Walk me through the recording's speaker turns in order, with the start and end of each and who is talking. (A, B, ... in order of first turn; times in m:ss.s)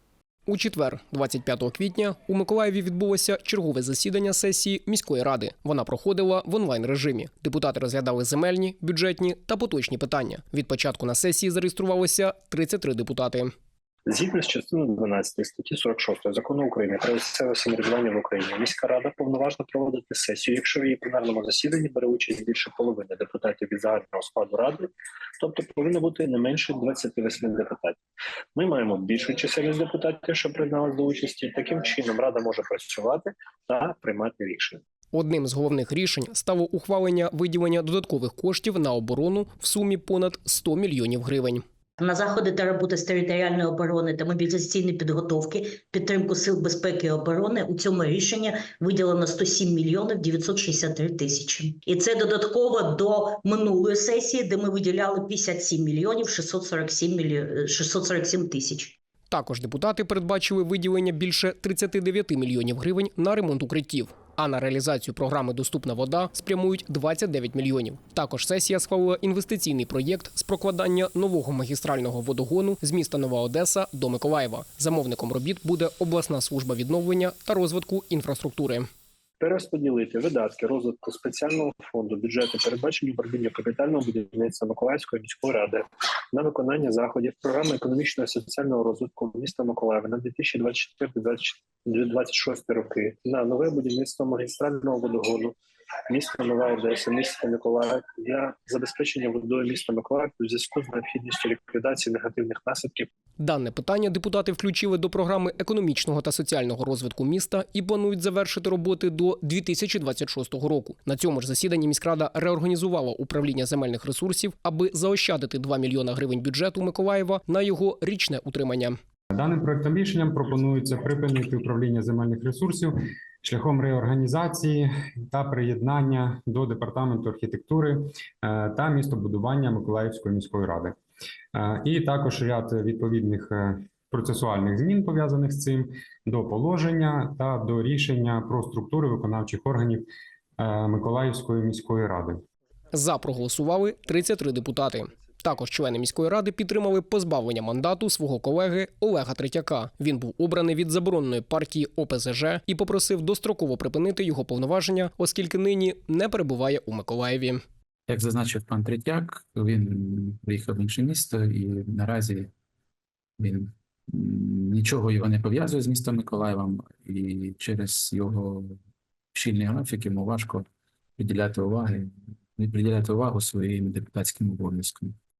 0:00.5-0:13.5 A
0:14.0-0:28.0 B
0:28.5-0:34.8 B
0:35.1-0:41.6 A
0:42.0-0:59.0 C
0:59.3-1:18.9 A
1:19.4-1:25.8 B
1:26.3-1:35.6 B
1:36.1-1:43.1 B
1:43.4-1:59.0 A
1:59.3-2:11.0 D
2:11.5-2:20.0 D
2:20.6-2:22.4 D
2:22.9-2:37.6 A
2:38.1-2:42.5 E
2:43.4-2:48.8 E
2:49.3-2:50.6 E
2:51.2-2:55.2 E